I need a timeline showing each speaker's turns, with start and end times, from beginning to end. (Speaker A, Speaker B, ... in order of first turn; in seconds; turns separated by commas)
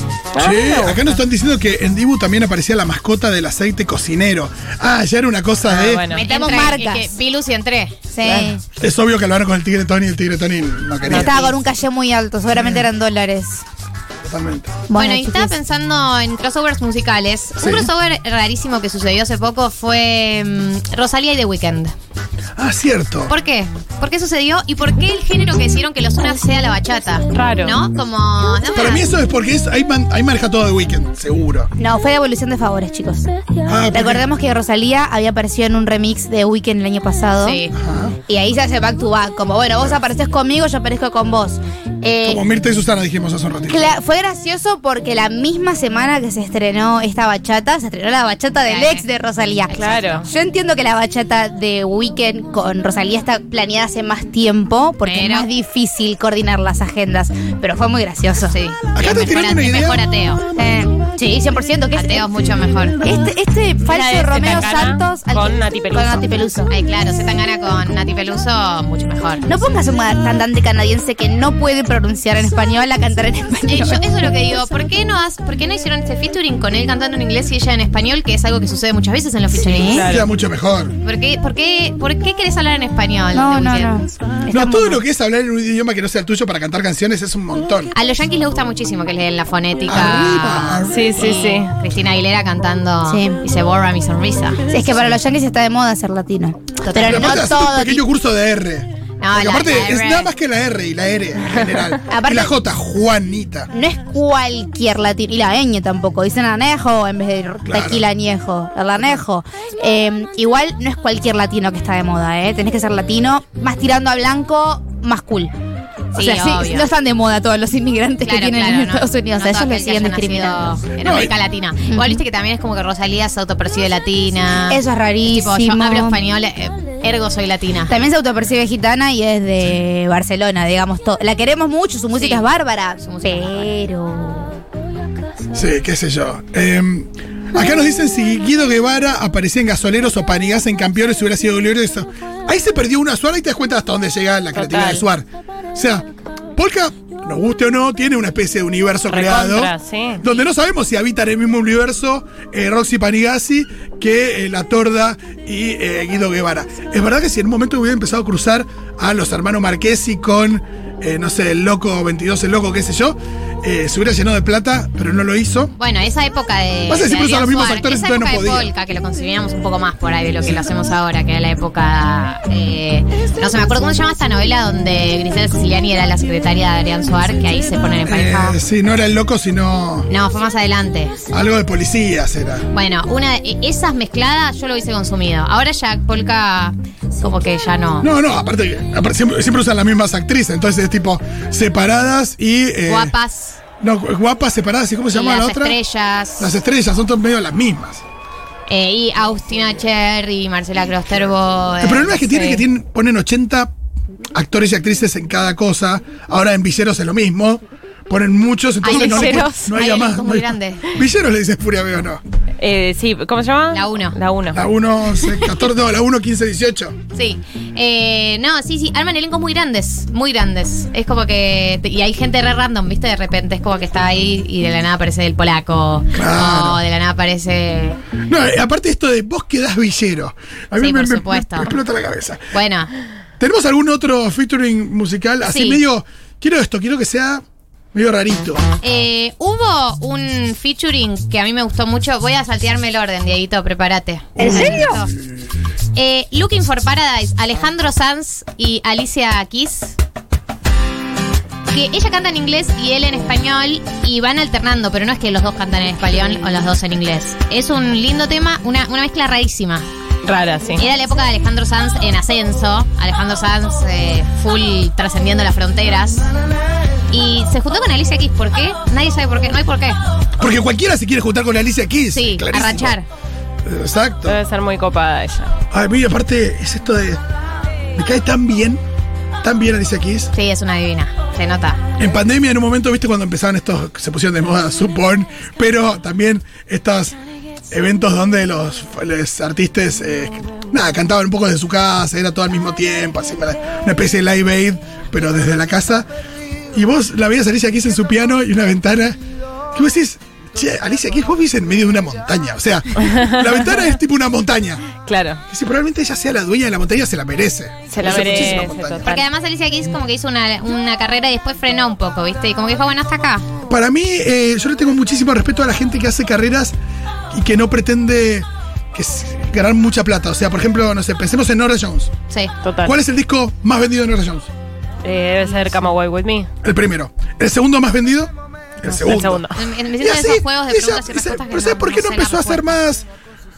Speaker A: 0.3-1.2, Speaker B: 0.4-6.0, Speaker A: 5.6-6.2, Speaker C: 6.1-8.0, Speaker D: 6.1-7.2, Speaker D: 8.1-8.6, Speaker A: 8.2-8.5, Speaker B: 8.8-11.4, Speaker D: 11.1-13.6, Speaker C: 11.1-11.5, Speaker B: 12.5-12.8, Speaker B: 14.2-14.8, Speaker D: 14.9-15.5, Speaker C: 14.9-21.9, Speaker B: 17.6-17.9, Speaker B: 22.6-23.3, Speaker C: 23.3-29.1, Speaker A: 27.3-27.8, Speaker B: 28.7-31.7, Speaker D: 31.8-33.3, Speaker B: 33.7-34.2, Speaker D: 33.9-37.6, Speaker C: 37.4-37.7, Speaker B: 37.7-38.2, Speaker D: 38.3-42.4, Speaker B: 42.2-44.0, Speaker D: 43.7-58.5, Speaker C: 48.6-49.0, Speaker C: 49.7-50.2, Speaker A: 49.7-50.2, Speaker C: 55.0-55.5, Speaker C: 58.5-60.4, Speaker B: 58.9-60.0, Speaker D: 60.5-62.3, Speaker C: 61.9-63.0, Speaker D: 63.0-66.7, Speaker A: 63.9-66.3, Speaker C: 66.7-69.4, Speaker D: 69.4-74.2, Speaker C: 73.7-80.1, Speaker D: 79.5-80.0, Speaker A: 79.9-80.3, Speaker B: 79.9-81.0, Speaker C: 81.0-84.0, Speaker D: 83.3-85.0, Speaker B: 84.5-87.9, Speaker C: 87.9-94.6, Speaker B: 89.9-91.2, Speaker A: 90.9-91.7, Speaker D: 93.0-93.4, Speaker D: 94.7-98.0, Speaker C: 96.8-97.5, Speaker B: 97.0-103.7, Speaker C: 99.2-100.3, Speaker D: 102.1-102.5, Speaker D: 103.7-115.5, Speaker B: 107.7-108.0, Speaker D: 116.1-120.7, Speaker C: 116.1-116.9, Speaker C: 118.2-127.9, Speaker B: 121.0-121.3, Speaker D: 121.9-122.2, Speaker D: 124.7-126.2, Speaker D: 127.9-134.5, Speaker C: 132.1-132.4, Speaker C: 133.0-133.6, Speaker B: 135.5-165.7, Speaker A: 144.5-145.1, Speaker A: 149.1-150.2, Speaker C: 165.7-178.6, Speaker B: 166.9-168.7, Speaker B: 178.1-180.1, Speaker C: 180.1-181.1, Speaker B: 181.3-182.7, Speaker C: 182.7-188.1, Speaker B: 188.0-193.1, Speaker C: 192.9-193.6, Speaker B: 193.8-195.8, Speaker C: 195.1-196.6, Speaker B: 196.4-198.0, Speaker C: 198.7-202.7, Speaker B: 201.8-203.7, Speaker B: 204.3-212.2, Speaker C: 208.8-210.9, Speaker A: 208.8-209.7, Speaker A: 212.6-214.6, Speaker C: 213.7-214.1, Speaker B: 214.5-216.9, Speaker C: 217.1-228.0, Speaker B: 226.1-226.8, Speaker B: 228.3-232.5, Speaker C: 230.8-231.7, Speaker C: 232.5-232.9, Speaker B: 233.4-237.4, Speaker C: 235.4-235.8, Speaker B: 237.9-238.6, Speaker C: 238.8-245.1, Speaker B: 244.4-245.0, Speaker C: 245.9-250.0, Speaker C: 251.7-259.9, Speaker A: 260.2-260.8, Speaker C: 260.8-266.2, Speaker C: 267.1-270.0, Speaker B: 270.4-273.0, Speaker C: 272.1-273.1, Speaker B: 273.6-274.4, Speaker A: 274.2-275.6, Speaker B: 275.7-277.2, Speaker B: 277.9-278.8, Speaker B: 279.4-280.3, Speaker C: 280.3-281.8, Speaker B: 282.0-287.2, Speaker B: 287.7-296.1, Speaker B: 296.7-299.2, Speaker B: 299.7-304.9, Speaker A: 302.9-303.9, Speaker A: 305.0-305.4, Speaker B: 305.5-309.0, Speaker A: 307.9-309.2, Speaker C: 308.0-313.4, Speaker B: 313.7-316.8, Speaker B: 317.3-322.1, Speaker A: 322.6-323.0, Speaker B: 322.8-324.5, Speaker A: 325.0-326.5, Speaker B: 326.6-329.4, Speaker A: 328.8-329.6, Speaker C: 329.5-332.8, Speaker B: 330.0-333.1